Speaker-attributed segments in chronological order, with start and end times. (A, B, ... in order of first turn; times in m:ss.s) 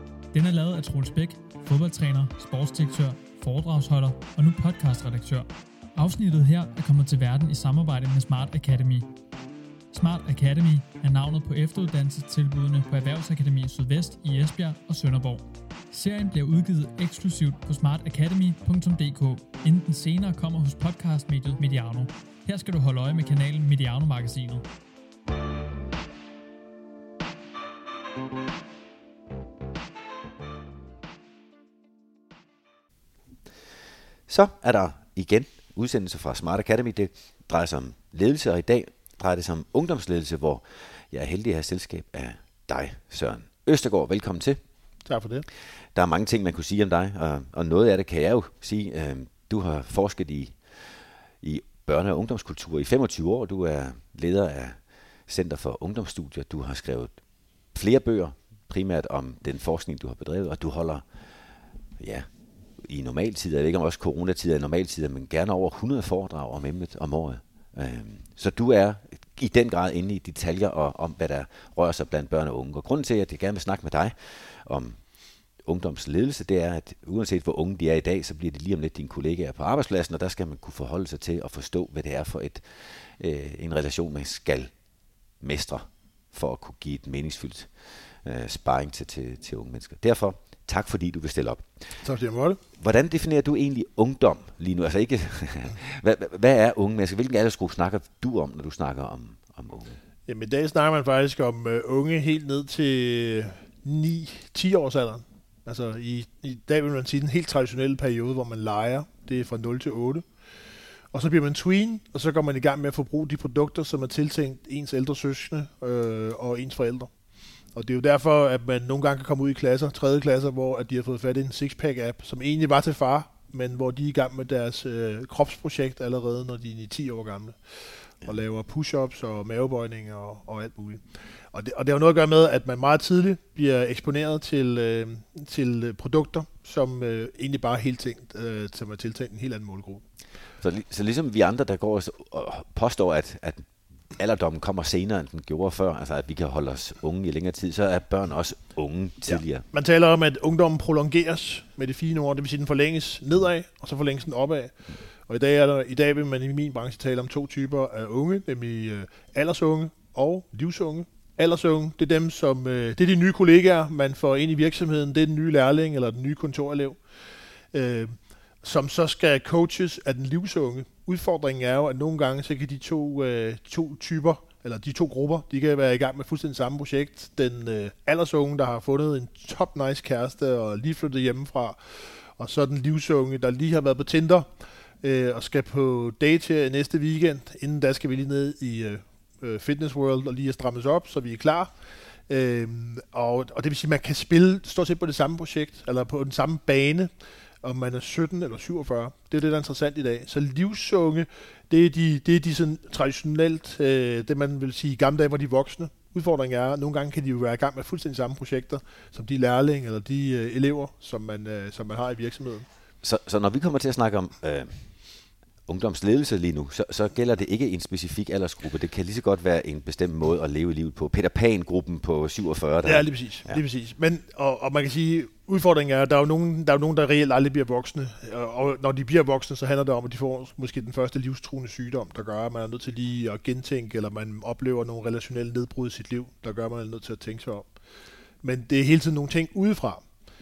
0:00.3-0:09.1 A
0:09.9-0:24.7 A
0:34.3-0:44.6 B
0:45.1-0:45.5 C
0:46.0-0:57.2 B
0:57.7-1:01.0 B
1:02.0-1:02.3 B
1:02.8-1:15.0 B
1:15.6-1:24.7 B
1:25.4-1:31.7 B
1:32.0-1:32.6 C
1:32.8-1:40.0 B
1:40.3-1:50.2 C
1:51.1-1:57.1 C
1:57.8-2:20.0 C
2:20.6-2:29.6 B
2:29.3-2:34.8 C
2:35.3-2:47.0 C
2:47.7-3:04.5 C
3:05.0-3:11.7 C
3:12.3-3:17.1 C
3:17.6-3:32.7 C
3:33.0-3:34.8 B
3:35.7-3:43.6 B
3:42.8-3:57.7 C
3:58.4-4:00.0 C